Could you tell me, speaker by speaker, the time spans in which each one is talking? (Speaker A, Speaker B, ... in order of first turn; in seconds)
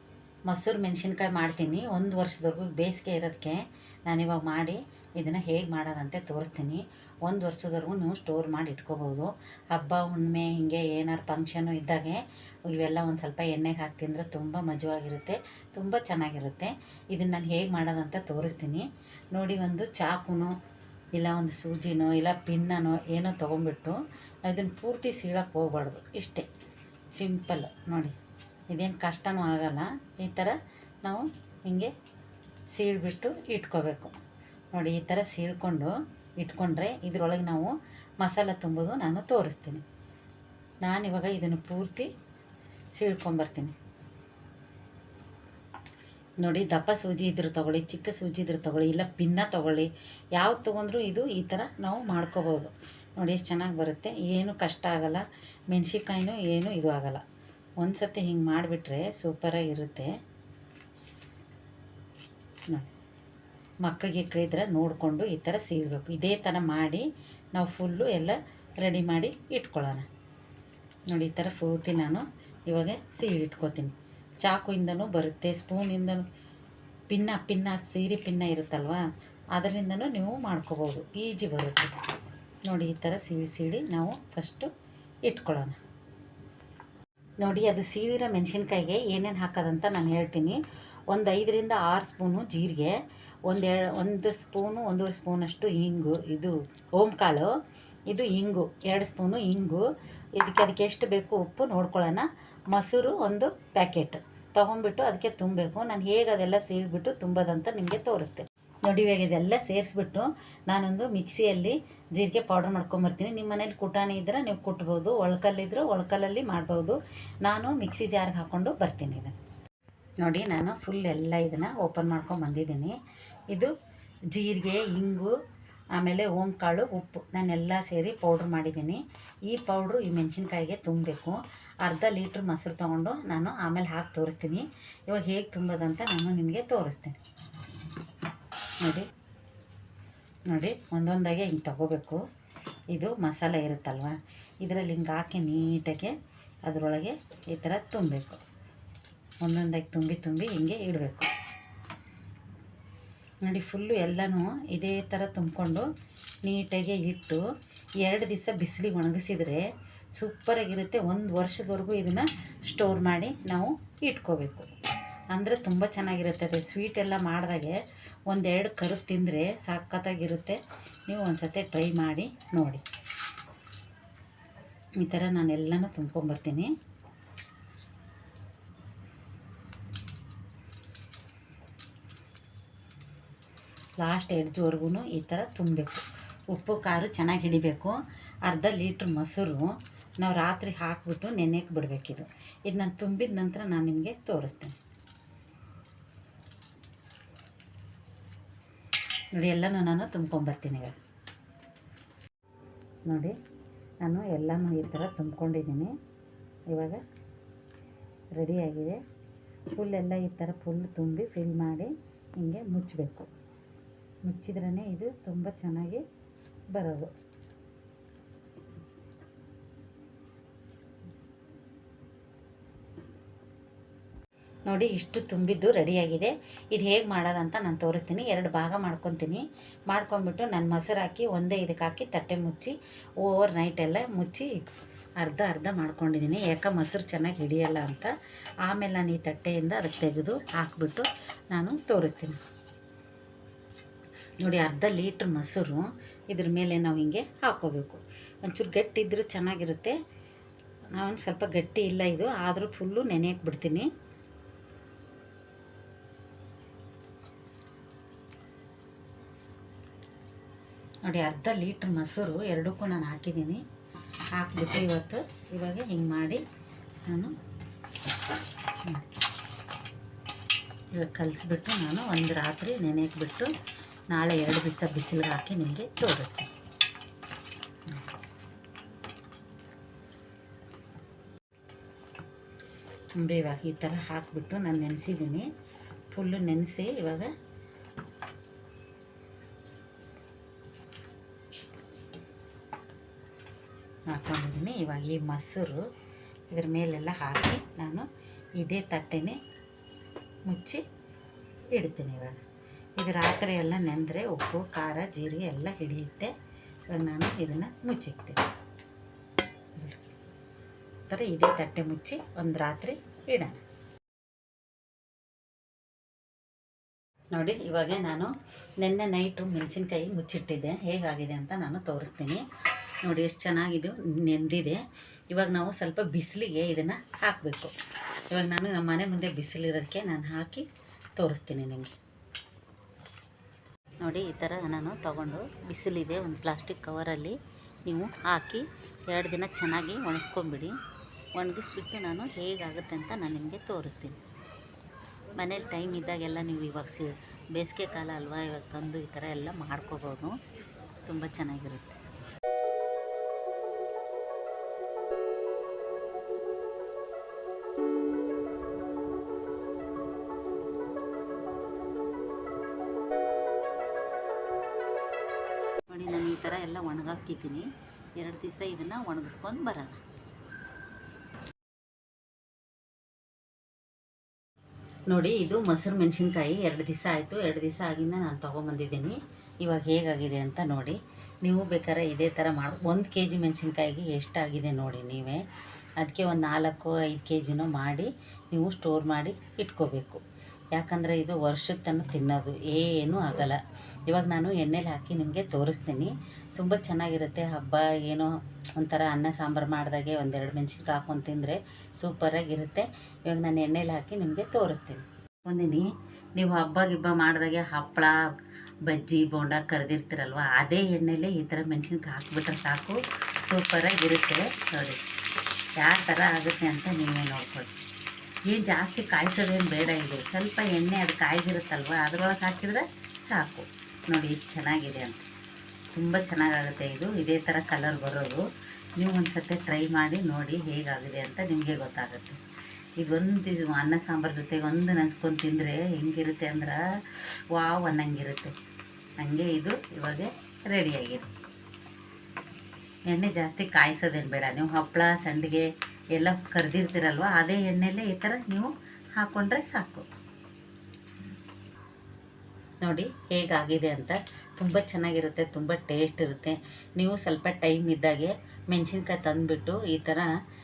Speaker A: 0.5-20.6, 21.1-26.5, 27.1-28.1, 28.7-31.9, 32.7-34.2, 34.7-39.8, 40.8-42.1, 42.9-43.7, 46.4-57.2, 57.8-60.1, 63.8-70.1, 71.1-76.3, 77.1-81.9, 82.7-84.7, 85.3-85.8, 87.4-97.5, 98.1-119.3, 120.2-123.0, 124.3-125.3, 126.0-137.2, 138.8-139.1, 140.5-142.2, 142.9-146.1, 146.7-148.4, 149.4-151.3, 153.4-155.9, 156.4-157.4, 158.0-164.7, 165.3-172.8, 175.0-176.7, 184.0-194.8, 199.3-200.9, 203.1-203.3, 204.0-205.9, 206.7-207.0, 208.4-209.0, 209.7-213.3, 214.2-216.0, 216.7-217.1, 224.7-234.6, 235.2-238.1, 238.6-242.4, 244.4-249.9, 250.9-253.9, 261.0-263.6, 264.3-266.4, 267.1-267.3, 270.9-273.5, 274.1-276.5, 283.2-285.5, 286.1-287.3, 294.1-295.8, 296.5-299.4, 300.5-300.8, 301.7-302.4, 303.0-306.3, 306.9-308.4, 309.8-310.0, 311.1-313.6, 317.3-322.4, 323.0-327.7, 328.3-331.9, 334.0-340.7, 341.4-344.2, 345.4-350.4, 351.1-352.0, 365.9-367.6, 368.2-369.9, 375.1-385.4, 386.0-390.2, 390.7-408.2, 408.8-415.0, 415.8-417.8, 418.5-425.2, 425.9-428.4, 429.0-432.4, 433.0-438.5, 439.2-441.3, 443.1-450.1, 452.8-460.3